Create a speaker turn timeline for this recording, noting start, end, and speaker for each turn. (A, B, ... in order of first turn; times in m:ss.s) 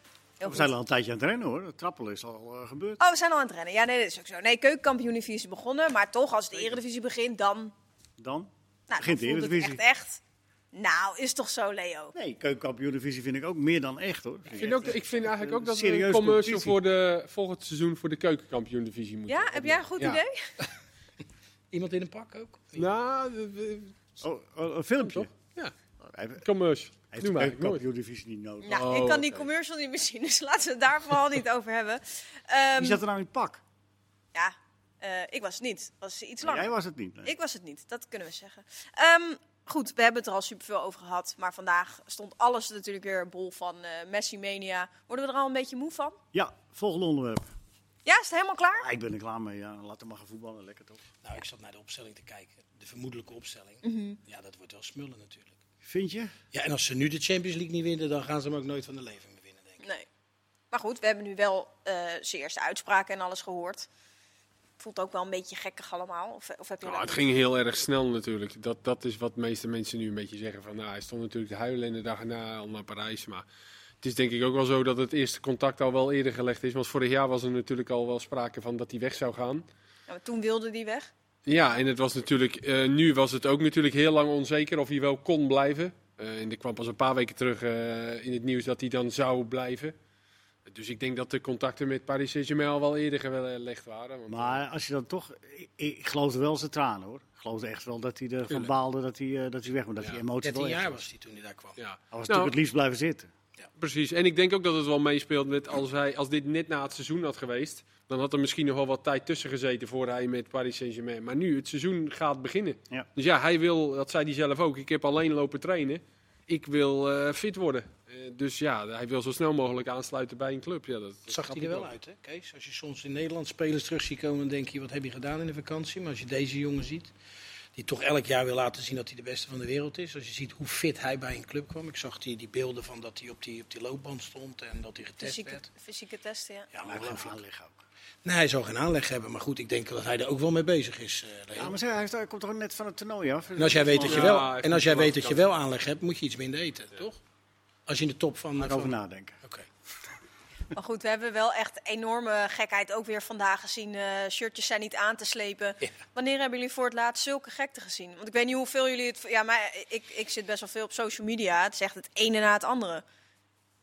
0:00.4-0:00.7 A
0:00.4-0:03.0 B
0:03.0-0:07.7 A
0:08.2-0:09.8 B
0:08.9-0:10.2 A
0:10.7-0:12.1 A
0:12.1-0:16.8 B
0:14.5-0:19.9 C
0:19.3-0:20.4 A
0:21.7-0:22.9 D
0:22.8-0:23.9 C
0:24.2-0:25.3 B
0:25.0-0:25.7 C
0:26.0-0:26.4 B
0:26.4-0:27.8 C
0:27.1-0:29.0 B
0:28.6-0:33.0 A
0:28.7-0:29.4 C
0:32.8-0:33.6 B
0:34.3-0:36.7 A
0:36.4-0:37.3 B
0:37.2-0:46.2 A
0:46.3-0:47.5 B
0:48.0-0:48.9 A
0:48.7-0:51.0 B
0:51.2-0:55.6 D
0:53.8-0:54.2 A
0:55.8-0:56.3 B
0:56.5-0:59.8 D
0:59.8-1:00.0 A
1:00.7-1:03.9 A
1:04.8-1:07.2 A
1:06.8-1:13.4 C
1:14.0-1:19.6 C
1:20.1-1:21.1 A
1:21.4-1:29.9 C
1:30.6-1:34.6 C
1:34.3-1:41.0 B
1:40.4-1:41.8 D
1:41.8-1:42.5 C
1:42.1-1:43.3 B
1:43.8-2:01.9 C
2:01.3-2:07.1 D
2:07.8-2:15.7 D
2:15.2-2:16.7 A
2:16.7-2:17.4 D
2:16.8-2:17.7 B
2:18.2-2:21.8 D
2:21.6-2:24.5 B
2:23.6-2:27.2 D
2:24.0-2:25.5 C
2:27.9-2:29.6 D
2:28.6-2:29.4 B
2:30.7-2:43.0 A